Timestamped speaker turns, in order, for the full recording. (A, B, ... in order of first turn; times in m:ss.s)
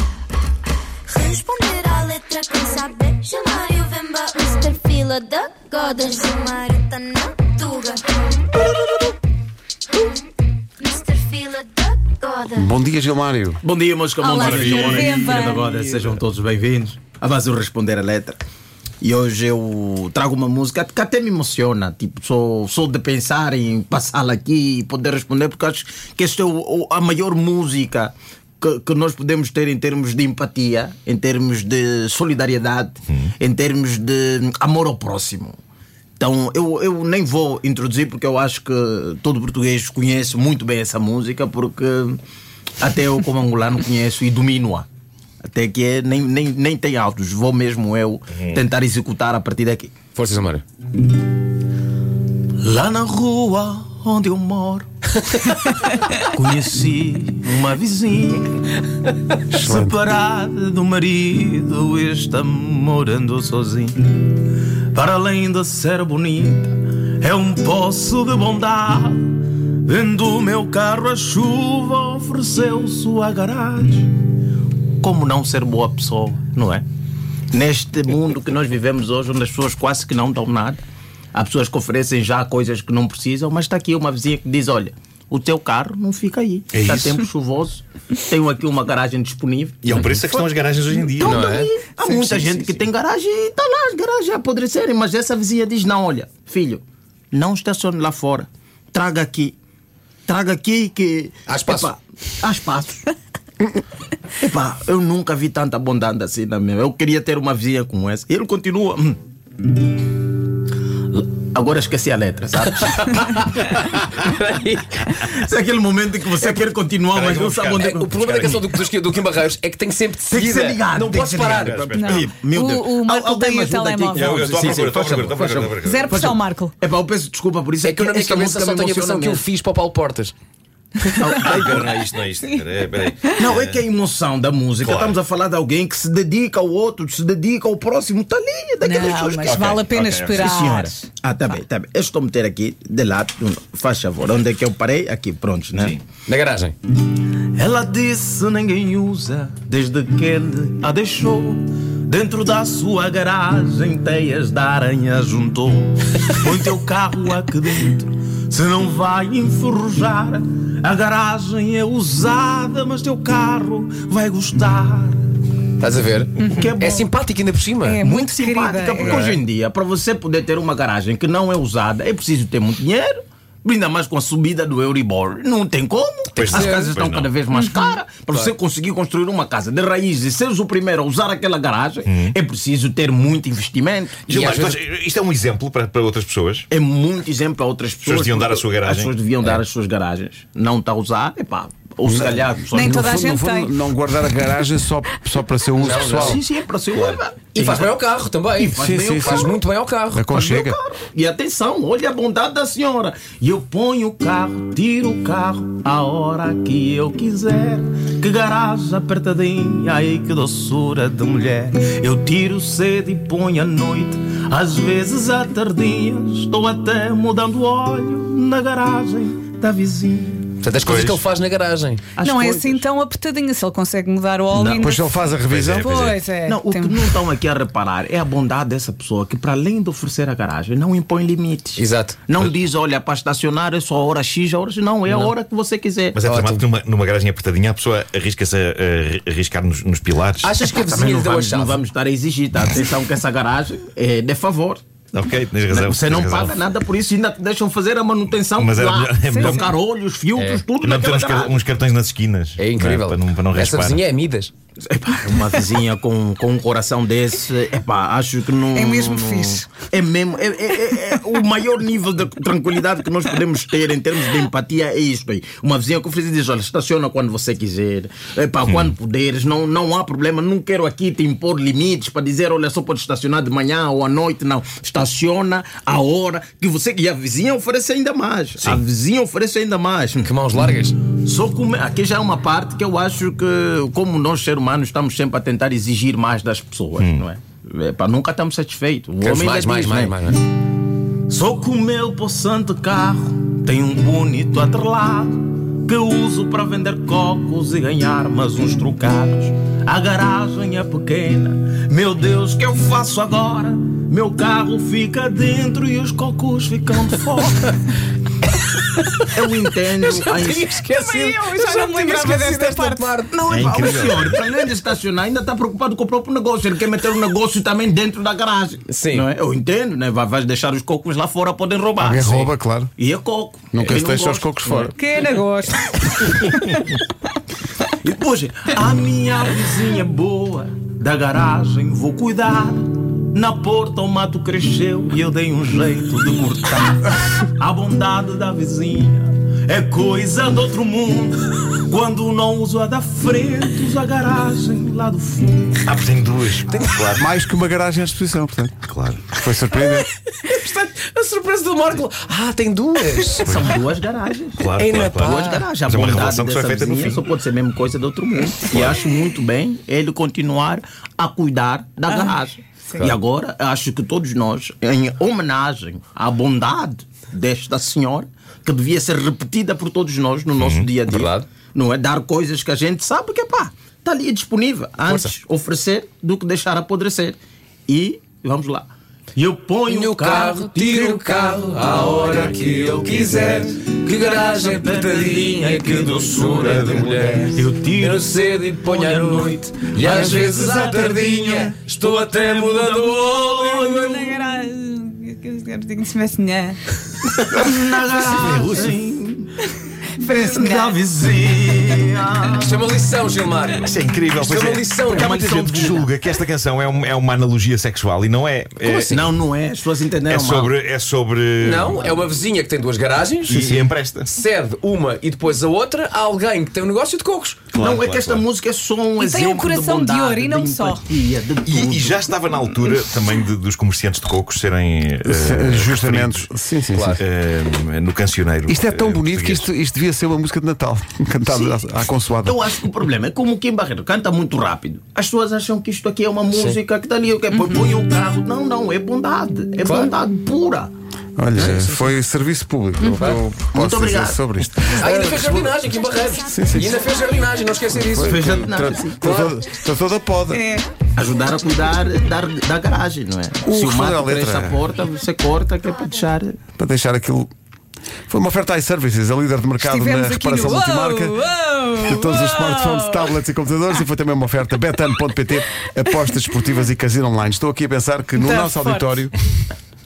0:01.1-0:08.0 A
0:08.7-0:09.0 B
0:10.8-0:12.7 A
0:12.5-0:13.6 C
0:13.6-0:18.4 B
0:14.2-0:15.7 D
0:14.3-0:14.9 A
0:14.4-0:15.2 E
0:19.0-0:35.6 B
0:36.2-0:42.2 B
0:42.8-0:44.9 B
0:45.4-0:49.9 B
0:48.3-0:48.6 E
0:50.1-0:50.6 F
0:52.6-0:54.9 B
0:56.1-0:58.5 B
0:59.5-1:00.0 C
0:59.5-1:04.4 B
1:04.9-1:14.2 B
1:15.0-1:16.8 B
1:17.5-1:20.8 B
1:21.3-1:30.5 B
1:26.7-1:27.2 E
1:29.8-1:31.5 E
1:31.1-1:39.6 B
1:31.2-1:31.7 F
1:32.1-1:32.6 D
1:40.2-1:43.1 B
1:41.5-1:41.9 F
1:44.4-1:49.2 B
1:51.1-1:53.5 B
1:52.6-1:55.3 F
1:55.1-1:58.6 B
1:57.1-1:58.8 E
1:57.7-2:02.1 F
2:00.3-2:09.4 B
2:01.5-2:02.3 E
2:01.9-2:04.5 D
2:04.1-2:06.2 E
2:05.8-2:06.7 D
2:07.8-2:10.3 F
2:11.0-2:11.5 F
2:11.1-2:11.9 B
2:11.4-2:13.8 E
2:13.4-2:26.0 B
2:14.8-2:15.2 E
2:18.8-2:21.6 D
2:19.4-2:20.5 E
2:25.8-2:26.0 E
2:26.2-2:26.7 F
2:27.2-2:45.2 B
2:45.8-2:48.0 F
2:46.4-2:46.7 D
2:46.4-2:47.1 B
2:47.8-2:49.4 D
2:48.0-3:04.5 B
2:49.0-2:49.4 F
2:56.3-2:57.3 E
2:56.5-2:56.9 F
2:57.5-2:58.0 D
3:02.0-3:02.4 E
3:04.2-3:04.8 F
3:04.3-3:06.7 E
3:06.7-3:13.2 B
3:08.0-3:09.1 E
3:12.1-3:16.4 C
3:12.7-3:13.7 D
3:15.8-3:16.4 F
3:15.9-3:18.0 B
3:16.9-3:17.2 E
3:17.5-3:20.3 F
3:18.6-3:19.6 B
3:18.6-3:19.6 C
3:20.1-3:20.8 C
3:20.3-3:40.6 B
3:40.6-3:42.1 F
3:40.7-3:41.2 E
3:42.2-3:42.8 B
3:42.2-3:45.3 D
3:44.5-3:44.9 B
3:44.8-3:45.9 C
3:45.4-3:46.2 E
3:45.8-3:47.2 D
3:46.4-3:56.2 B
3:51.8-3:52.2 F
3:55.0-3:55.3 F
3:56.1-4:00.5 E
3:56.2-3:56.6 F
4:00.4-4:01.8 F
4:00.6-4:04.8 B
4:05.1-4:06.6 E
4:05.7-4:11.6 B
4:08.4-4:09.7 E
4:09.3-4:09.7 D
4:10.3-4:10.7 F
4:10.8-4:14.0 E
4:12.6-4:14.5 F
4:14.8-4:40.3 B
4:18.7-4:19.7 D
4:28.7-4:28.9 E
4:40.2-4:41.0 F
4:41.1-4:50.4 B
4:47.0-4:47.2 E
4:49.2-4:50.4 F
4:51.3-5:07.8 B
5:08.8-5:09.3 F
5:09.3-5:10.9 B
5:10.0-5:13.3 F
5:10.9-5:13.2 D
5:13.3-5:24.9 B
5:13.5-5:14.4 E
5:18.9-5:19.3 F
5:22.0-5:22.9 C
5:23.7-5:25.0 C
5:25.0-5:27.0 D
5:28.0-5:45.8 B
5:45.8-5:47.3 E
5:47.2-5:48.7 C
5:48.8-5:49.2 E
5:49.3-5:50.1 C
5:49.7-5:53.6 F
5:53.4-6:34.4 B
5:54.6-5:57.3 E
5:54.8-5:55.6 F
5:58.6-5:59.0 E
6:02.1-6:02.4 D
6:02.9-6:03.2 F
6:10.6-6:10.9 E
6:11.0-6:11.4 F
6:15.0-6:15.3 F
6:19.9-6:34.3 F
6:33.7-6:36.8 D
6:37.4-6:39.5 B
6:38.3-6:38.9 E
6:40.2-6:41.0 D
6:40.2-6:42.9 B
6:42.4-6:45.4 F
6:43.8-6:49.3 E
6:45.0-6:46.1 B
6:48.8-6:50.7 B
6:48.9-6:49.2 F
6:50.2-6:52.2 E
6:51.6-6:57.6 F
6:53.5-6:54.3 E
6:57.7-6:58.4 E
6:57.7-7:02.2 B
6:59.2-7:01.1 D
7:01.6-7:06.5 E
7:05.2-7:07.2 C
7:06.9-7:07.2 F
7:07.2-7:09.7 E
7:08.7-7:12.6 C
7:11.4-7:11.8 B
7:12.4-7:20.9 B
7:16.5-7:16.8 F
7:17.5-7:17.8 D
7:19.8-7:20.2 F
7:21.4-7:25.4 C
7:21.5-7:21.8 B
7:21.5-7:22.2 F
7:23.0-7:23.4 D
7:23.2-7:23.4 F
7:23.7-7:25.5 B
7:24.9-7:29.5 F
7:26.4-7:27.0 C
7:27.9-7:30.6 C
7:28.2-7:29.5 B
7:30.5-7:31.0 D
7:31.1-7:36.6 B
7:33.6-7:34.8 C
7:36.8-7:37.5 C
7:38.3-7:41.4 C
7:39.8-7:43.4 D
7:42.0-7:49.3 C
7:48.4-7:49.3 D